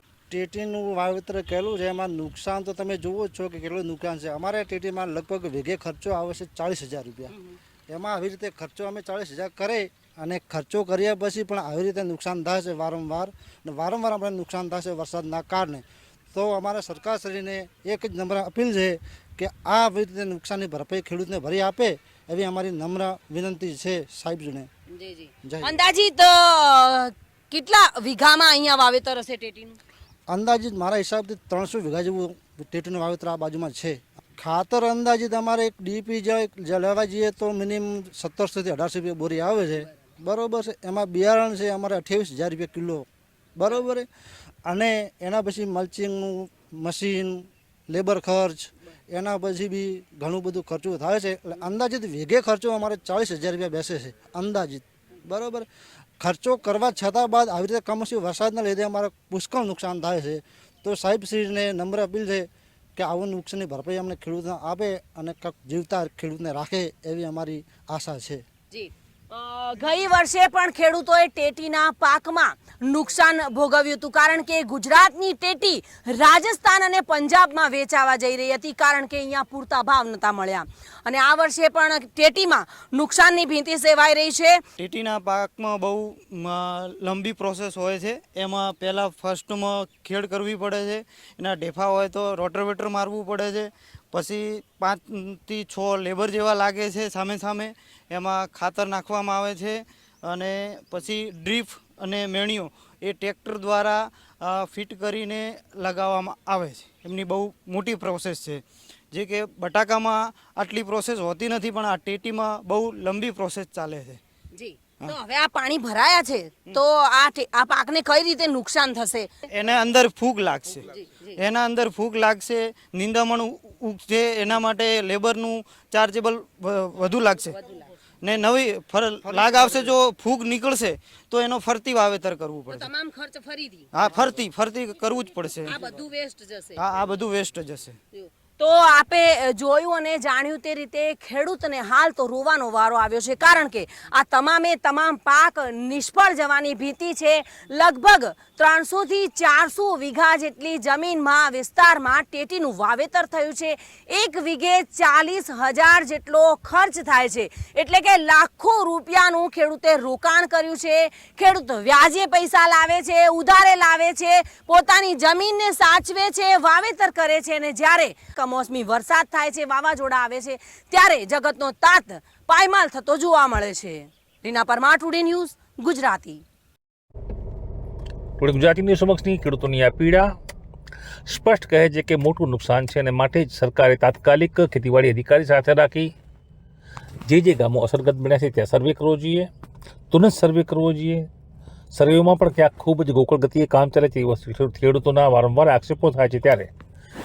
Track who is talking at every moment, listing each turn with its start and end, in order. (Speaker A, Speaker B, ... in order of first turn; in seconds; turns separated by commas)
Speaker A: 0.3-7.3, Speaker A: 7.9-24.7, Speaker B: 24.9-29.8, Speaker A: 25.4-25.8, Speaker A: 30.3-44.1, Speaker A: 44.6-55.7, Speaker A: 56.2-68.4, Speaker B: 68.7-84.6, Speaker C: 84.8-114.2, Speaker B: 114.5-119.3, Speaker C: 119.6-120.8, Speaker B: 120.9-121.3, Speaker C: 121.4-127.5, Speaker B: 127.5-127.9, Speaker C: 128.2-132.9, Speaker B: 132.7-133.9, Speaker C: 134.1-135.7, Speaker B: 135.7-136.8, Speaker C: 136.8-138.0, Speaker B: 138.1-176.4, Speaker D: 178.4-180.3, Speaker D: 181.3-186.1, Speaker D: 187.2-189.5, Speaker D: 190.1-191.3, Speaker D: 191.9-196.7